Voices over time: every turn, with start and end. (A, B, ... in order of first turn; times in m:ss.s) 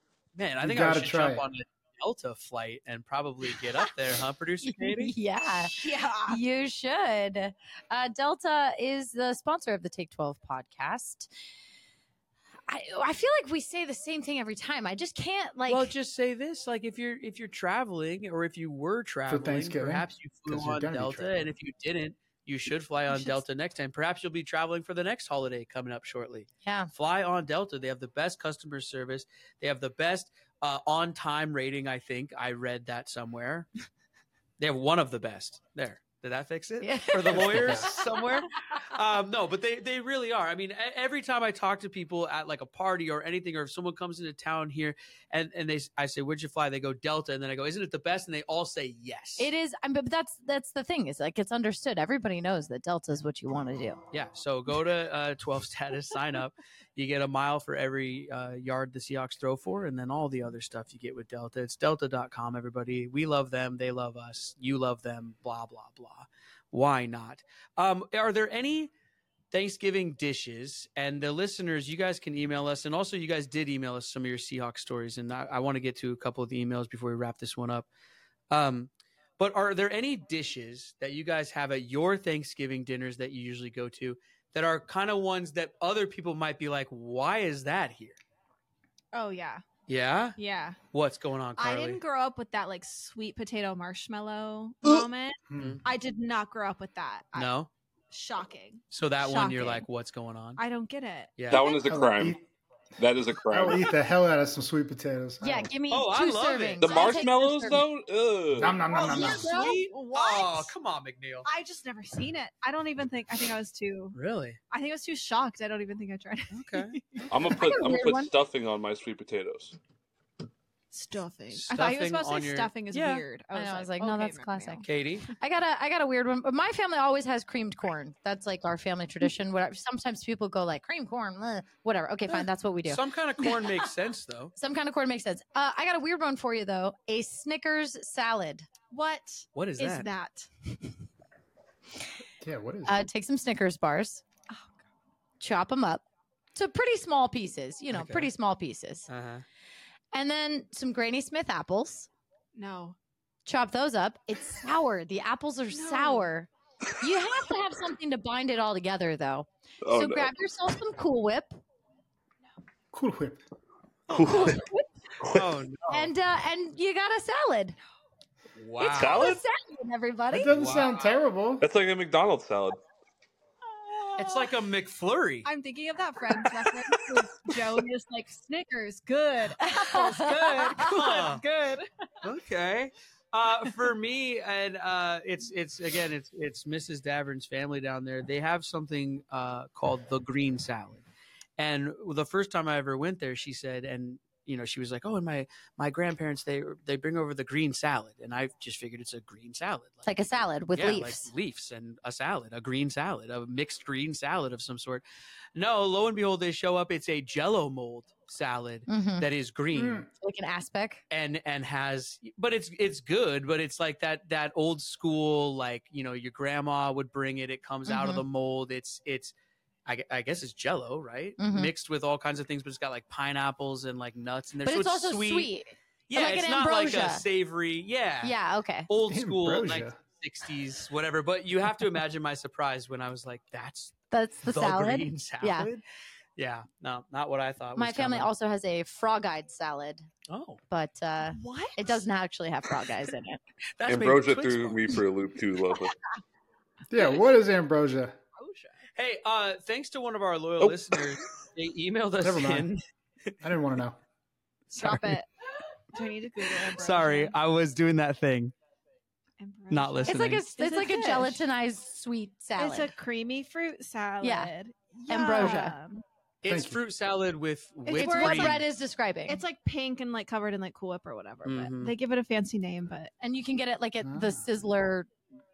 0:00.3-0:05.1 A
0:00.6-0:01.4 B
0:04.6-0:11.3 C
0:05.7-0:06.4 D
0:12.7-0:15.9 C
0:15.7-0:33.7 A
0:19.3-0:21.5 B
0:26.6-0:26.9 C
0:34.6-0:49.5 A
0:36.8-0:38.3 C
0:37.3-0:37.9 B
0:49.4-0:54.0 C
0:54.1-1:08.9 A
1:09.5-1:17.9 A
1:18.5-1:28.2 A
1:29.1-1:29.6 D
1:29.9-1:30.4 A
1:30.4-1:30.8 D
1:30.9-1:32.0 A
1:31.6-1:37.5 D
1:35.5-1:35.8 B
1:35.6-1:35.8 A
1:37.3-1:37.7 A
1:38.1-1:39.8 D
1:38.9-1:40.6 A
1:40.6-1:41.9 D
1:41.4-1:41.7 A
1:41.5-1:42.4 E
1:41.8-1:42.4 B
1:43.0-1:43.9 E
1:43.5-1:45.7 B
1:45.4-1:47.8 C
1:45.9-1:47.0 A
1:46.8-1:48.8 E
1:48.6-1:49.5 B
1:48.9-1:50.7 D
1:48.9-1:51.5 A
1:49.1-1:49.7 C
1:51.4-1:54.2 D
1:54.1-1:54.6 A
1:54.7-1:57.9 D
1:56.5-1:57.0 A
1:57.3-1:59.8 E
1:57.5-1:58.3 C
2:00.9-2:04.9 D
2:01.5-2:03.2 A
2:03.5-2:04.8 C
2:04.8-2:05.3 A
2:05.4-2:13.0 C
2:12.8-2:14.5 A
2:14.6-2:18.7 C
2:18.9-2:20.5 D
2:19.5-2:20.1 A
2:22.4-2:23.0 B
2:22.8-2:24.2 C
2:24.5-2:24.8 D
2:25.4-2:29.1 C
2:27.9-2:28.3 A
2:29.1-2:29.4 A
2:30.1-2:32.1 C
2:32.5-2:33.0 D
2:33.4-2:36.5 C
2:35.7-2:36.3 D
2:37.0-2:41.6 C
2:39.8-2:40.3 E
2:42.9-2:43.4 B
2:44.1-2:44.6 A
2:44.1-2:44.6 E
2:44.3-2:44.8 C
2:45.2-2:45.5 E
2:45.3-2:46.1 A
2:45.9-2:47.8 C
2:48.6-2:49.3 A
2:48.8-2:49.4 E
2:49.0-2:50.5 C
2:50.3-2:51.6 B
2:50.5-2:51.1 A
2:51.6-2:52.8 E
2:53.8-2:54.5 D
2:54.2-2:55.5 A
2:55.4-3:01.9 D
2:59.6-3:00.8 C
3:00.7-3:01.4 A
3:02.2-3:11.0 A
3:11.6-3:20.1 A
3:20.0-3:21.3 C
3:20.7-3:25.0 A
3:25.5-3:30.0 A
3:28.9-3:29.3 C
3:29.7-3:30.1 B
3:30.1-3:31.0 C
3:31.1-3:39.3 A
3:37.9-3:38.2 C
3:39.8-3:45.5 A
3:41.4-3:41.7 C
3:44.6-3:47.2 C
3:46.1-3:48.3 A
3:48.2-3:48.9 C
3:48.9-3:55.8 A
3:49.1-3:50.0 B
3:54.1-3:55.7 C
3:56.4-3:58.3 A
3:57.8-4:00.1 C
4:00.3-4:00.6 A
4:00.7-4:03.4 C
4:01.2-4:02.0 D
4:03.8-4:05.0 A
4:03.9-4:05.9 E
4:06.9-4:08.2 B
4:08.4-4:08.8 D
4:09.0-4:13.3 A
4:10.6-4:11.0 E
4:12.2-4:12.7 B
4:13.4-4:14.0 B
4:14.7-4:15.1 A
4:14.7-4:15.3 D
4:15.9-4:17.3 D
4:16.7-4:18.5 A
4:19.4-4:21.4 D
4:19.7-4:20.4 A
4:20.1-4:22.9 C
4:22.6-4:26.0 D
4:24.2-4:24.5 C
4:25.1-4:25.7 C
4:26.4-4:28.6 A
4:26.4-4:26.8 B
4:27.9-4:28.6 D
4:27.9-4:29.4 C
4:29.3-4:33.1 D
4:31.4-4:31.9 A
4:33.2-4:35.1 C
4:34.0-4:34.5 B